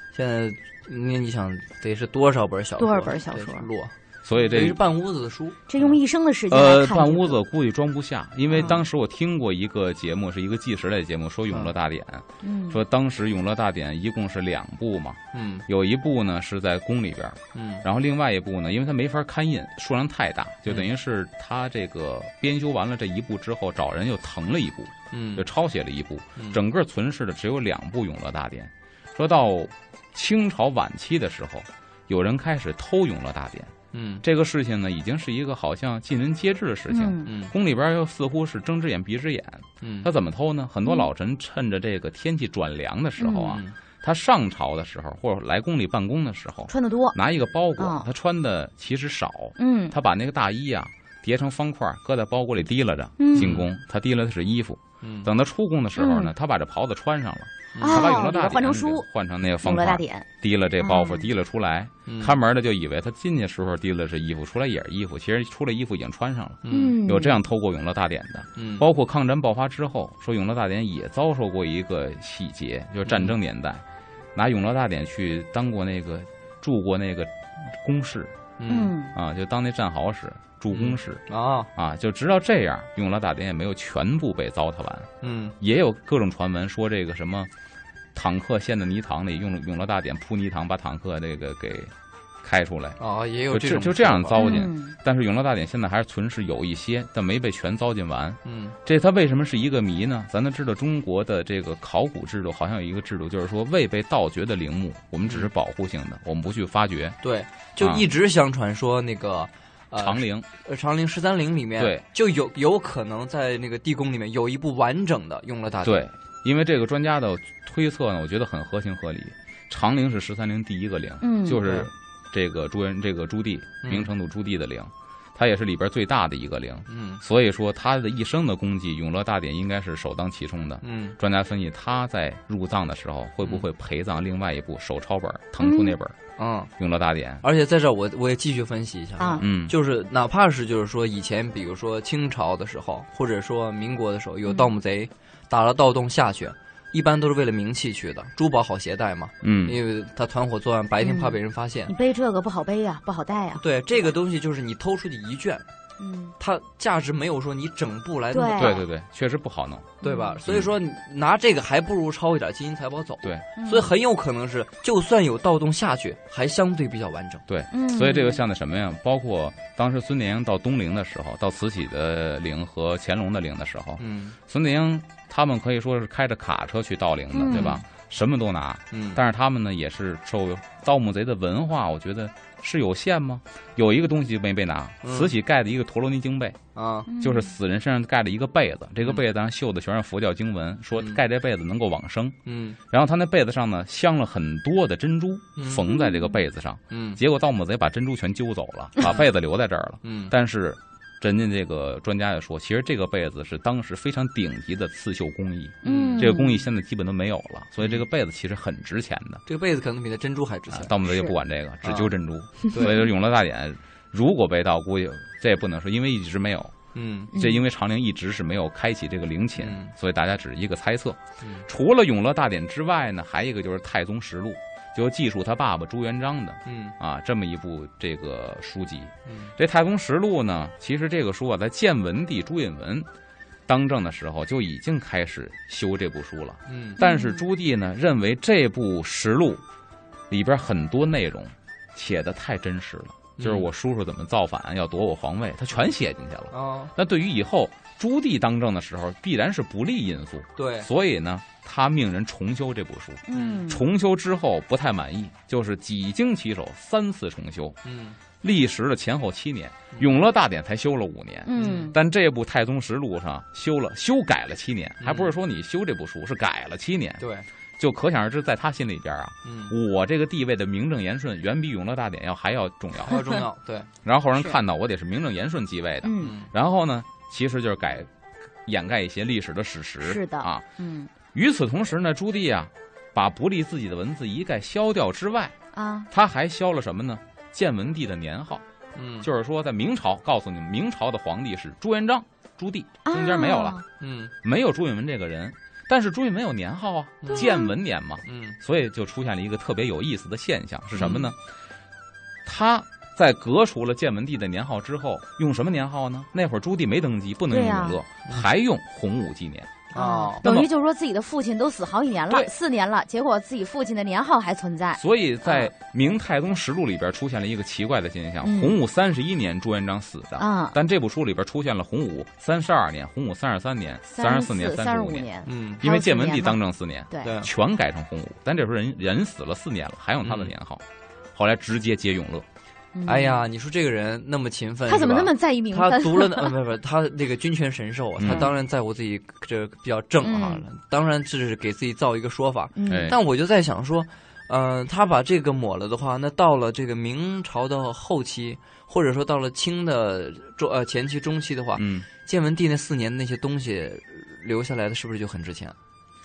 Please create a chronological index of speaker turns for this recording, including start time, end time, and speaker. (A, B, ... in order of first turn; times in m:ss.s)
0:00.1-0:06.0 A
0:02.8-0:03.7 B
0:04.2-0:04.8 C
0:05.7-0:07.4 B
0:06.5-1:13.8 C
0:08.5-0:08.8 A
0:12.4-0:12.8 B
0:15.3-0:15.6 A
0:17.5-0:17.8 A
0:25.1-0:25.4 A
0:26.4-0:26.6 A
0:33.9-0:34.2 A
0:36.9-0:37.3 B
0:37.2-0:37.5 A
0:39.8-0:40.1 A
0:43.2-0:43.6 B
0:43.4-0:43.7 A
0:46.7-0:47.2 B
0:47.8-0:48.1 B
0:49.6-0:49.9 B
0:53.2-0:53.5 B
0:53.3-0:53.7 A
0:55.0-0:55.3 A
0:56.0-0:56.3 B
0:57.7-0:58.2 A
0:57.8-0:59.0 B
0:59.6-1:00.2 B
1:00.8-1:01.2 B
1:02.1-1:02.4 A
1:06.6-1:07.0 A
1:06.7-1:07.4 B
1:08.6-1:08.8 A
1:13.0-1:13.3 A
1:14.3-1:18.3 C
1:18.6-1:18.9 A
1:18.7-1:19.1 B
1:19.1-1:21.2 C
1:20.7-1:21.7 A
1:21.7-1:27.5 C
1:25.2-1:25.5 A
1:28.1-1:33.0 C
1:33.0-1:34.6 A
1:33.5-1:47.2 C
1:34.4-1:34.9 B
1:38.4-1:38.8 A
1:47.2-1:56.0 A
1:47.8-1:48.1 C
1:50.0-1:50.5 C
1:51.8-1:52.0 C
1:55.8-2:16.2 C
2:01.2-2:01.6 B
2:01.6-2:01.9 A
2:03.8-2:04.1 A
2:06.9-2:07.2 A
2:10.8-2:11.2 A
2:15.6-2:15.9 B
2:16.4-2:16.7 A
2:16.8-2:17.4 C
2:17.4-2:31.9 A
2:19.4-2:19.7 C
2:29.4-2:29.8 C
2:31.0-2:34.1 B
2:33.6-2:35.6 A
2:36.0-2:36.3 B
2:36.4-2:38.8 A
2:38.3-2:38.8 B
2:38.6-2:40.7 C
2:40.0-2:40.4 B
2:40.0-2:47.4 A
2:43.6-2:43.9 B
2:47.5-3:06.6 C
2:47.7-2:48.4 B
2:54.0-2:54.4 A
2:57.3-2:57.8 B
2:57.5-2:57.8 A
2:58.9-2:59.2 A
3:05.0-3:05.3 A
3:06.7-3:07.1 A
3:07.1-3:07.5 B
3:07.2-3:12.4 C
3:12.4-3:12.8 A
3:12.9-3:29.4 C
3:15.6-3:15.9 A
3:15.8-3:16.4 B
3:16.9-3:17.2 A
3:20.0-3:20.3 A
3:25.8-3:26.6 B
3:25.8-3:26.3 A
3:29.5-3:31.0 A
3:30.7-3:36.8 C
3:31.8-3:32.1 A
3:32.7-3:33.1 A
3:36.9-3:37.3 A
3:37.3-3:53.1 C
3:37.3-3:37.6 B
3:39.6-3:39.9 A
3:46.6-3:47.0 A
3:49.3-3:49.5 A
3:53.7-3:59.6 C
3:56.7-3:57.0 A
3:57.0-3:57.4 B
4:00.3-4:17.8 C
4:03.4-4:03.7 A
4:06.5-4:06.9 A
4:10.6-4:10.9 A
4:13.3-4:13.8 B
4:13.3-4:13.6 A
4:17.8-4:18.2 A
4:18.4-4:33.2 C
4:19.9-4:20.2 A
4:21.4-4:22.0 B
4:21.6-4:21.9 A
4:25.0-4:25.3 A
4:27.2-4:27.4 A
4:29.4-4:29.7 A
4:33.0-4:33.9 A
4:34.0-4:38.1 C
4:36.0-4:36.3 B
4:36.2-4:36.5 A
4:38.6-4:40.6 C
4:40.0-4:41.1 B
4:41.3-4:45.5 C
4:45.7-4:46.1 B
4:46.1-4:48.6 C
4:48.9-4:49.3 A
4:49.2-4:53.8 C
4:53.0-4:53.8 B
4:54.0-4:54.3 A
4:54.4-5:01.4 C
4:57.2-4:57.6 A
4:57.3-4:57.7 B
4:58.2-4:58.6 A
5:01.0-5:01.3 B
5:02.4-5:09.8 C
5:07.5-5:08.0 B
5:09.9-5:10.5 A
5:09.9-5:15.7 B
5:10.4-5:10.7 C
5:14.9-5:25.3 C
5:18.4-5:18.8 B
5:20.4-5:20.8 B
5:24.1-5:27.3 B
5:25.4-5:25.8 A
5:25.8-5:30.8 C
5:27.2-5:27.5 A
5:30.2-5:30.5 A
5:31.3-5:32.4 C
5:32.9-5:33.4 B
5:33.0-5:55.8 A
5:34.9-5:36.5 B
5:38.2-5:38.5 C
5:40.2-5:40.6 B
5:42.8-5:43.1 B
5:42.9-5:43.2 C
5:51.8-5:52.1 C